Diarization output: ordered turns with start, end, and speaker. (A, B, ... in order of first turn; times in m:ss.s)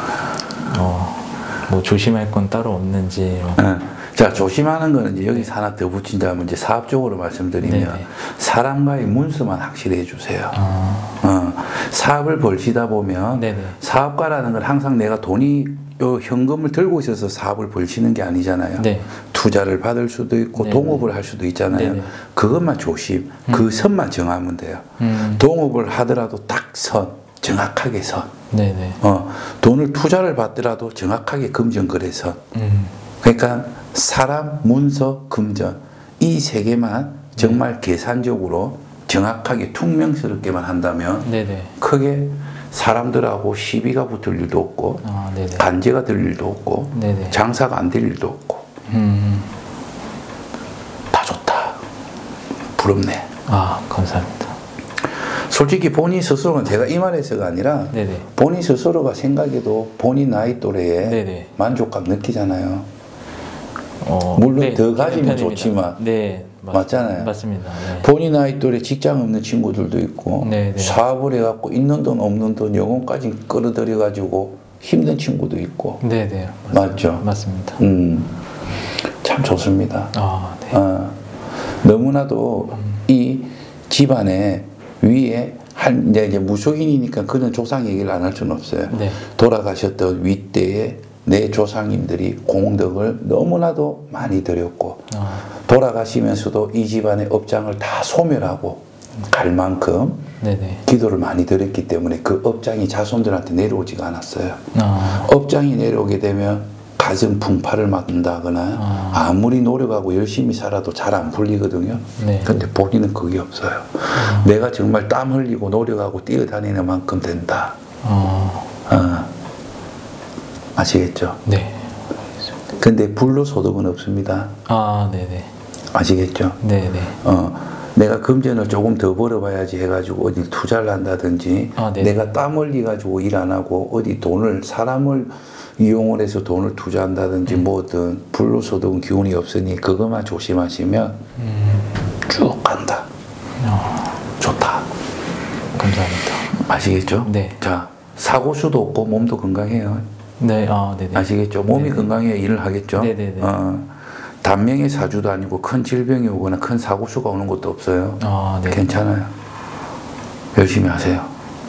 0:00.7-0:03.6 A
0:03.6-0:10.6 B
0:07.6-0:08.1 A
0:10.5-0:11.2 A
0:11.2-0:28.3 B
0:13.4-0:13.8 A
0:18.8-0:19.1 A
0:20.6-0:21.1 A
0:21.7-0:22.1 A
0:23.5-0:23.7 A
0:25.0-0:25.4 A
0:28.5-0:29.0 A
0:29.0-0:32.4 B
0:32.5-0:32.9 A
0:33.2-0:45.0 B
0:41.2-0:41.7 A
0:45.0-0:45.7 A
0:45.6-0:48.7 B
0:46.9-0:47.4 A
0:48.9-0:49.5 A
0:51.1-0:51.8 B
0:52.8-0:53.3 B
0:53.5-0:54.6 A
0:55.3-1:02.9 B
0:57.9-0:58.3 A
1:01.0-1:01.5 A
1:04.0-1:08.1 A
1:04.4-1:06.0 B
1:06.7-1:07.3 B
1:07.9-1:16.0 B
1:10.4-1:11.0 A
1:16.0-1:17.8 A
1:16.7-1:17.2 B
1:17.8-1:18.4 B
1:19.2-1:20.1 B
1:20.1-1:20.8 A
1:20.7-1:21.2 B
1:21.8-1:40.2 B
1:28.9-1:29.2 A
1:35.1-1:35.4 A
1:40.4-1:40.8 A
1:40.9-1:44.6 B
1:44.7-1:45.3 A
1:45.1-1:57.8 B
1:48.8-1:49.3 A
1:52.2-1:52.6 A
1:54.1-1:54.5 A
1:58.0-1:58.7 A
1:58.9-1:59.3 B
2:00.8-2:01.4 B
2:01.5-2:01.9 A
2:02.8-2:04.5 B
2:04.7-2:05.5 A
2:05.9-2:06.6 B
2:06.6-2:07.2 A
2:07.2-2:21.2 B
2:11.8-2:12.3 A
2:21.4-2:22.0 A
2:22.2-2:23.1 B
2:23.6-2:24.2 A
2:24.4-2:24.8 B
2:25.8-2:26.5 A
2:26.6-2:30.0 B
2:27.2-2:27.6 A
2:30.4-2:32.1 A
2:31.1-2:39.3 B
2:33.0-2:33.5 A
2:38.2-2:38.9 A
2:40.6-2:41.3 B